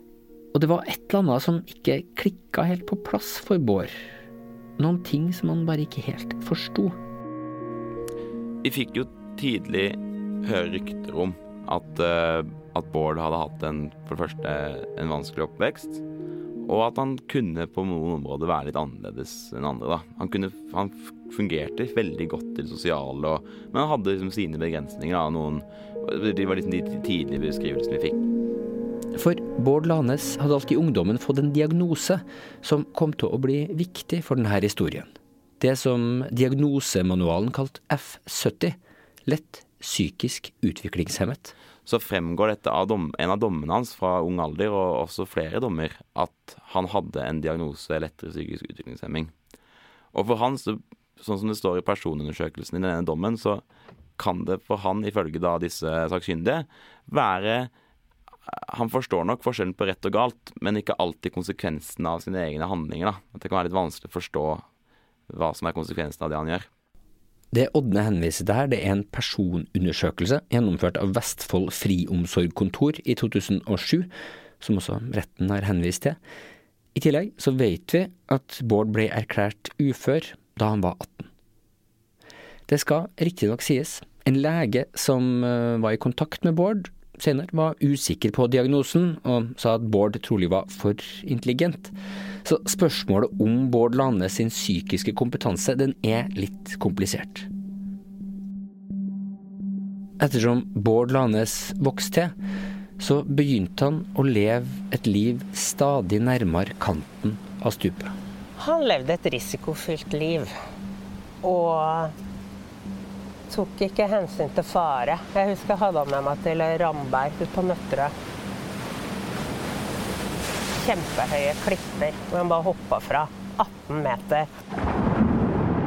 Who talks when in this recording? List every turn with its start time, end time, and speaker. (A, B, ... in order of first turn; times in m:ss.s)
0:00.5-0:04.0 A
0:04.8-0:07.0 A
0:08.6-0:16.0 B
0:16.6-0:28.2 B
0:29.1-0:41.5 A
0:41.8-0:49.3 B
0:50.1-0:53.6 B
0:54.2-0:57.7 B
0:58.5-1:04.6 B
1:05.3-1:06.7 B
1:07.5-1:16.2 A
1:16.9-1:21.3 A
1:22.7-1:37.5 A
1:40.2-1:42.3 A
1:43.0-1:48.1 A
1:48.6-1:50.5 C
1:51.4-1:52.1 C
1:53.5-1:58.1 C
2:00.8-2:04.5 C